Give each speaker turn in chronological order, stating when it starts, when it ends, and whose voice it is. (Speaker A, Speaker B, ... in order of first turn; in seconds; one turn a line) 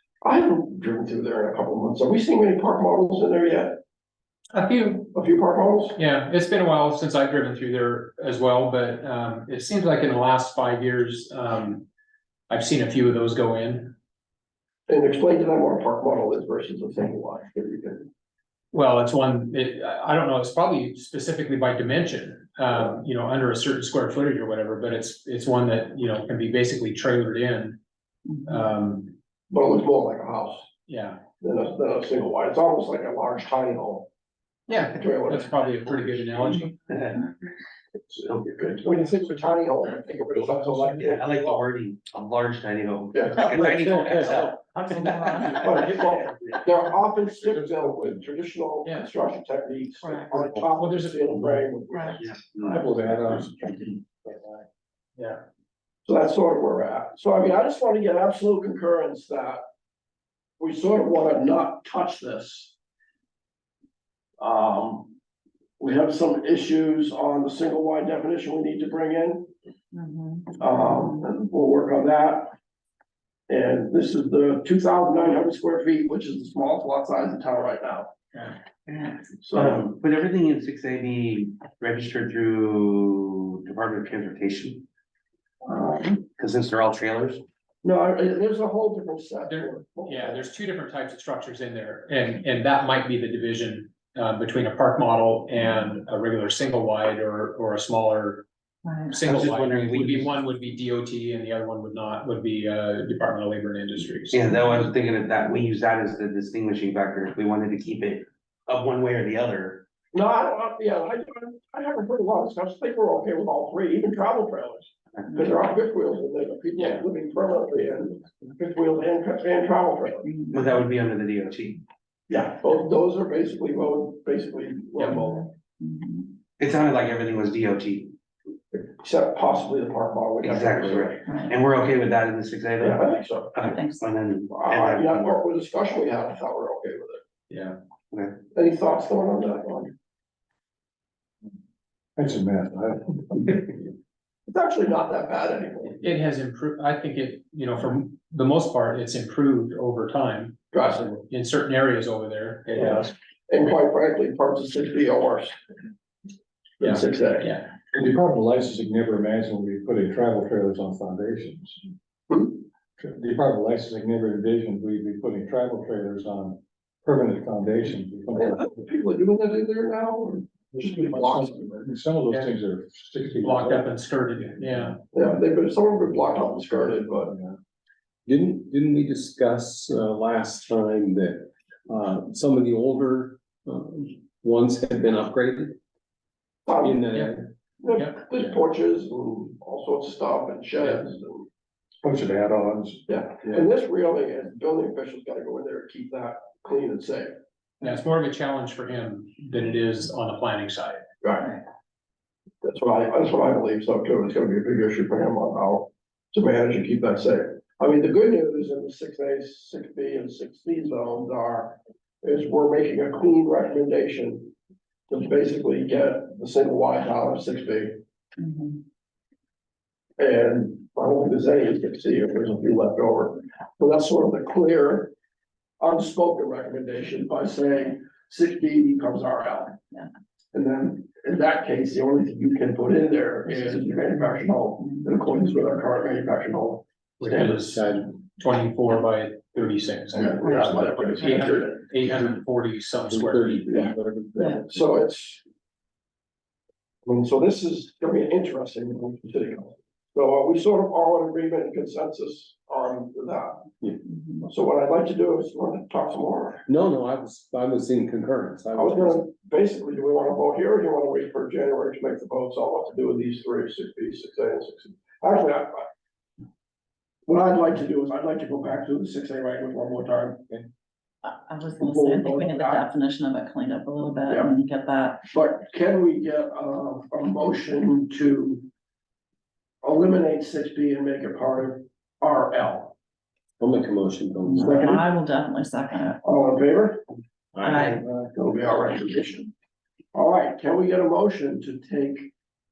Speaker A: 0.2-3.8
Speaker B: 4.5-5.1
Speaker A: 5.1-6.0
Speaker B: 6.0-11.8
Speaker B: 12.5-13.9
Speaker A: 14.9-18.1
Speaker B: 18.7-27.8
Speaker C: 28.3-28.6
Speaker B: 28.5-29.1
Speaker A: 29.5-30.7
Speaker B: 30.9-31.2
Speaker A: 31.4-34.1
Speaker B: 34.7-36.8
Speaker A: 34.9-35.5
Speaker D: 36.9-37.2
Speaker A: 38.1-41.6
Speaker D: 38.3-38.8
Speaker E: 40.2-41.0
Speaker D: 41.0-46.1
Speaker A: 43.1-43.7
Speaker C: 45.2-45.5
Speaker A: 45.6-52.3
Speaker E: 47.5-48.2
Speaker C: 50.0-50.4
Speaker B: 50.8-51.7
Speaker C: 51.9-52.2
Speaker D: 52.2-52.9
Speaker E: 52.6-54.6
Speaker A: 56.1-59.6
Speaker A: 60.6-62.8
Speaker A: 64.4-65.1
Speaker A: 65.8-69.5
Speaker C: 69.9-70.6
Speaker A: 70.6-72.5
Speaker A: 73.5-78.1
Speaker A: 79.4-79.9
Speaker D: 79.5-84.8
Speaker A: 85.7-86.2
Speaker D: 86.3-87.4
Speaker A: 87.8-90.4
Speaker B: 89.5-98.5
Speaker C: 98.8-99.2
Speaker B: 99.1-104.5
Speaker D: 99.2-100.4
Speaker D: 104.3-109.8
Speaker C: 104.5-104.9
Speaker A: 110.1-120.3
Speaker C: 120.2-120.9
Speaker D: 120.5-121.8
Speaker A: 122.3-125.5
Speaker C: 125.2-126.4
Speaker D: 126.6-128.1
Speaker A: 128.7-131.3
Speaker D: 130.4-135.4
Speaker C: 131.2-131.6
Speaker A: 132.8-133.6
Speaker C: 133.6-134.1
Speaker A: 134.5-137.2
Speaker B: 137.5-137.8
Speaker D: 138.1-138.4
Speaker A: 138.5-139.9
Speaker E: 142.2-143.7
Speaker A: 144.5-146.0
Speaker B: 146.0-153.1
Speaker A: 150.7-151.2
Speaker A: 152.8-155.6
Speaker A: 156.8-157.5
Speaker B: 156.8-157.7
Speaker E: 157.9-161.8
Speaker E: 163.0-168.7
Speaker A: 168.3-171.9
Speaker E: 170.7-173.9
Speaker B: 173.3-175.0
Speaker A: 175.1-177.3
Speaker E: 177.2-177.6
Speaker F: 178.3-185.8
Speaker A: 186.7-187.1
Speaker F: 186.8-187.5
Speaker A: 187.8-191.5
Speaker E: 192.0-193.7
Speaker A: 193.1-197.3
Speaker B: 197.8-201.1
Speaker A: 201.2-201.6
Speaker A: 202.6-214.5
Speaker A: 215.1-218.0
Speaker C: 218.4-218.8
Speaker A: 220.2-225.1
Speaker A: 225.8-229.8
Speaker A: 230.5-237.6
Speaker C: 233.5-233.8
Speaker C: 234.8-235.3
Speaker B: 237.2-243.7
Speaker F: 237.7-238.0
Speaker A: 240.1-241.9
Speaker F: 243.1-244.5
Speaker A: 243.7-245.4
Speaker A: 247.0-253.7
Speaker C: 254.1-254.5
Speaker A: 254.4-256.6
Speaker F: 256.7-259.2
Speaker A: 258.7-265.9
Speaker A: 267.3-270.5
Speaker C: 271.2-275.3
Speaker A: 271.8-272.9
Speaker A: 275.3-278.7
Speaker A: 279.8-282.9
Speaker F: 283.6-285.0
Speaker C: 284.4-286.2
Speaker A: 284.5-285.1
Speaker A: 286.2-287.1
Speaker F: 287.6-287.9
Speaker C: 287.6-288.0
Speaker E: 287.7-288.2
Speaker A: 288.3-289.5
Speaker A: 290.1-292.3